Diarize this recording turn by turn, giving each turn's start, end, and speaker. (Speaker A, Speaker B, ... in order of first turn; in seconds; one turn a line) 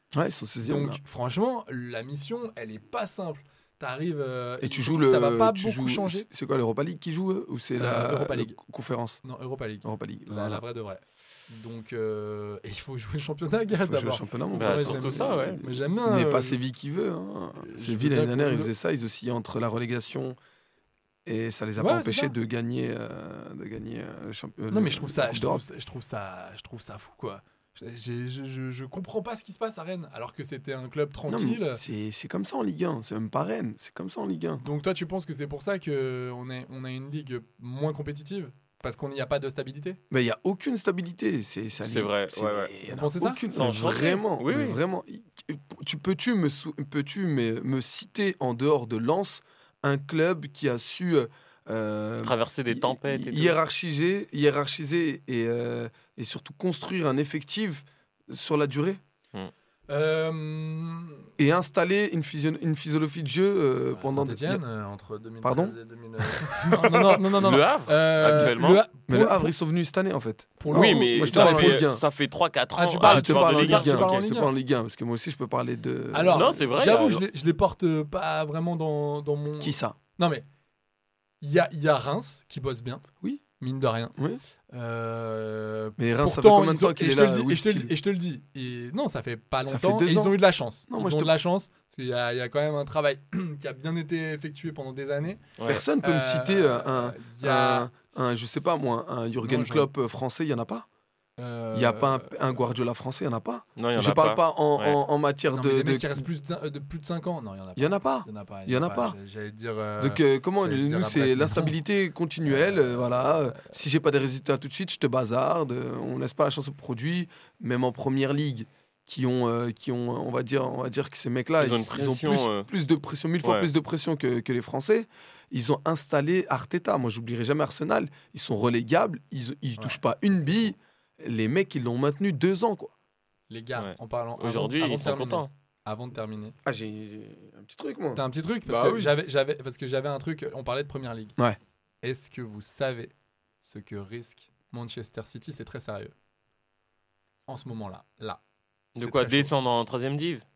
Speaker A: 0.1-1.0
Speaker B: 0.6-6.3
Speaker A: 4.6-9.2
Speaker B: 7.8-8.6
Speaker B: 9.2-16.6
Speaker A: 9.8-10.6
Speaker A: 13.7-20.4
Speaker C: 14.5-15.6
Speaker B: 17.6-18.7
Speaker A: 21.3-25.6
Speaker B: 21.8-22.3
Speaker B: 24.7-31.8
Speaker A: 31.3-34.6
Speaker B: 34.6-40.0
Speaker A: 40.1-59.0
Speaker C: 41.8-42.7
Speaker B: 42.9-43.4
Speaker C: 43.5-44.8
Speaker C: 52.2-53.6
Speaker B: 59.9-61.2
Speaker A: 61.4-64.6
Speaker B: 63.9-69.5
Speaker A: 65.4-66.6
Speaker C: 67.3-68.8
Speaker A: 69.1-72.0
Speaker B: 70.6-71.8
Speaker C: 70.7-74.3
Speaker B: 72.7-74.5
Speaker A: 73.0-76.6
Speaker B: 76.1-80.5
Speaker C: 76.3-77.2
Speaker A: 79.6-80.0
Speaker B: 81.4-83.0
Speaker B: 83.6-84.1
Speaker B: 84.7-97.9
Speaker A: 86.0-87.9
Speaker A: 89.6-91.3
Speaker C: 95.6-95.8
Speaker A: 95.7-100.9
Speaker B: 99.4-99.9
Speaker B: 101.4-102.4
Speaker A: 101.7-106.2
Speaker C: 103.8-105.0
Speaker B: 105.5-111.8
Speaker A: 107.8-109.2
Speaker A: 110.0-132.9
Speaker B: 112.7-113.3
Speaker C: 121.6-122.7
Speaker C: 123.4-123.7
Speaker B: 129.8-130.7
Speaker B: 133.5-136.6
Speaker C: 133.8-135.5
Speaker A: 136.6-139.2
Speaker B: 138.1-141.3
Speaker B: 142.0-146.1
Speaker B: 147.5-148.4
Speaker C: 148.9-150.4
Speaker B: 149.0-149.5